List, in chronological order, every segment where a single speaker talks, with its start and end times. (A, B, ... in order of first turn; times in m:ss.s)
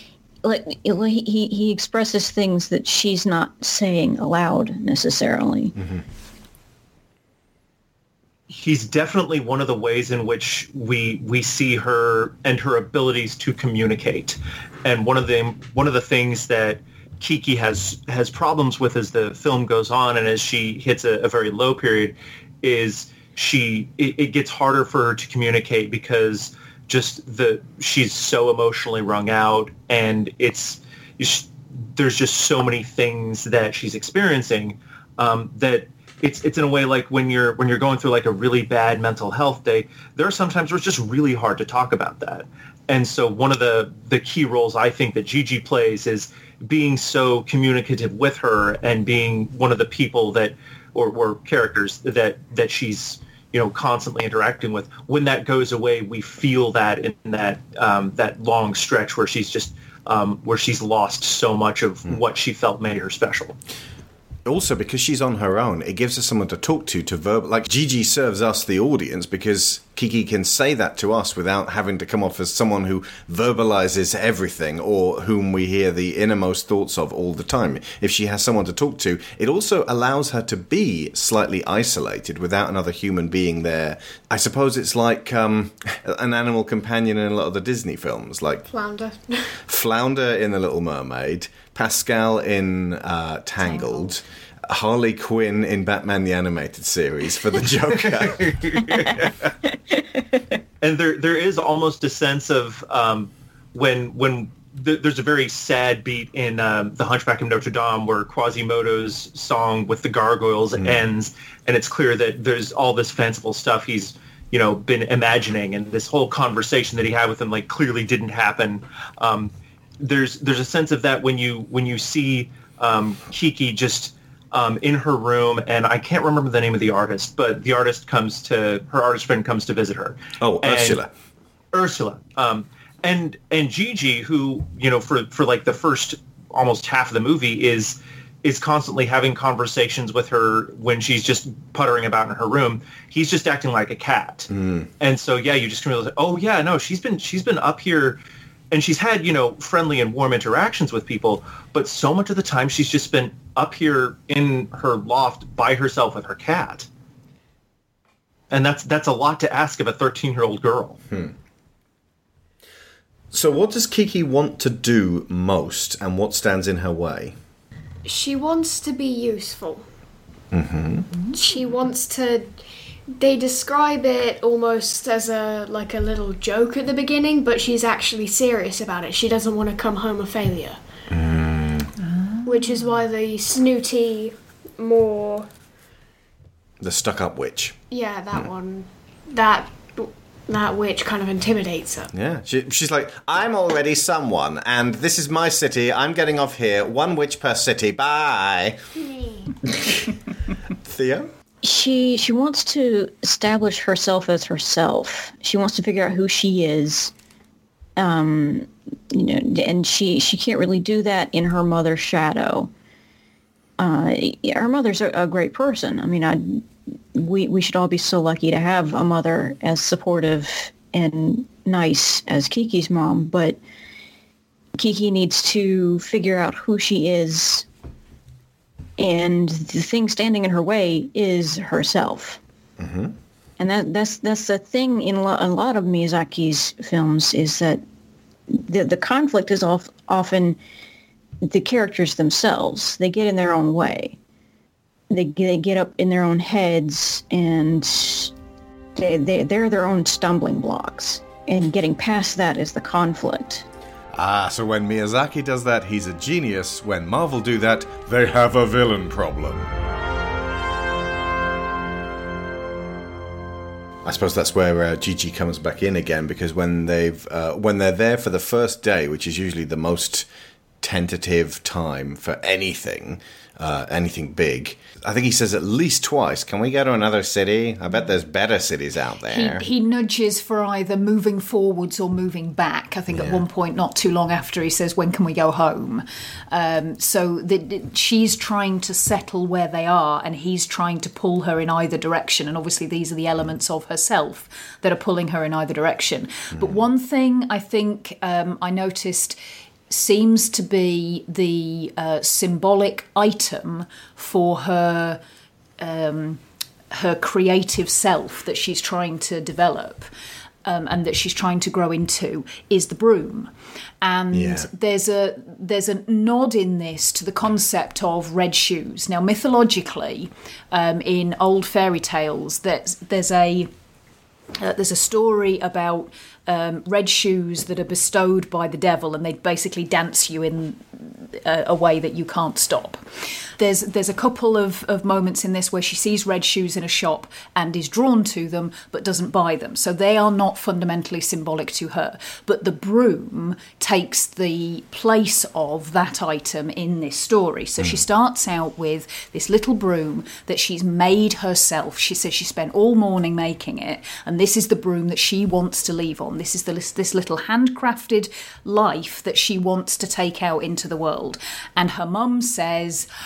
0:00.4-0:05.7 A
0:05.8-0:06.0 B
0:08.5-1:03.6 C
1:04.4-1:28.7 B
1:28.7-1:29.6 D
1:29.7-1:39.5 B
1:33.6-1:34.1 D
1:40.8-2:11.0 C
2:10.4-2:11.1 B
2:11.7-2:24.5 C
2:24.5-2:24.9 B
2:25.0-2:28.2 C
2:28.7-2:36.9 C
2:38.5-2:41.0 C
2:43.3-2:47.4 B
2:48.0-2:49.9 D
2:50.5-2:51.1 B
2:51.3-2:52.6 D
2:53.2-3:00.8 D
3:01.1-3:01.9 B
3:02.0-3:02.6 E
3:02.4-3:05.5 D
3:06.8-3:07.8 B
3:07.9-3:12.1 D
3:12.1-3:18.8 B
3:19.0-3:19.5 D
3:19.6-3:20.1 B
3:20.8-3:21.3 B
3:21.6-3:27.1 A
3:28.0-3:32.7 A
3:33.8-3:43.6 A
3:44.8-3:47.6 A
3:49.0-3:52.4 A
3:52.8-3:53.1 B
3:53.6-3:57.8 A
3:58.5-4:00.6 A
4:01.4-4:04.2 A
4:05.1-4:08.3 A
4:08.9-4:13.6 A
4:14.1-4:19.7 B
4:24.0-4:30.3 B
4:30.8-4:39.6 B
4:39.3-4:59.4 E
4:43.1-4:43.4 B
4:59.9-5:05.2 E
5:05.8-5:10.1 E
5:10.6-5:23.7 E
5:14.3-5:14.7 B
5:24.6-5:33.0 E
5:33.6-6:03.1 E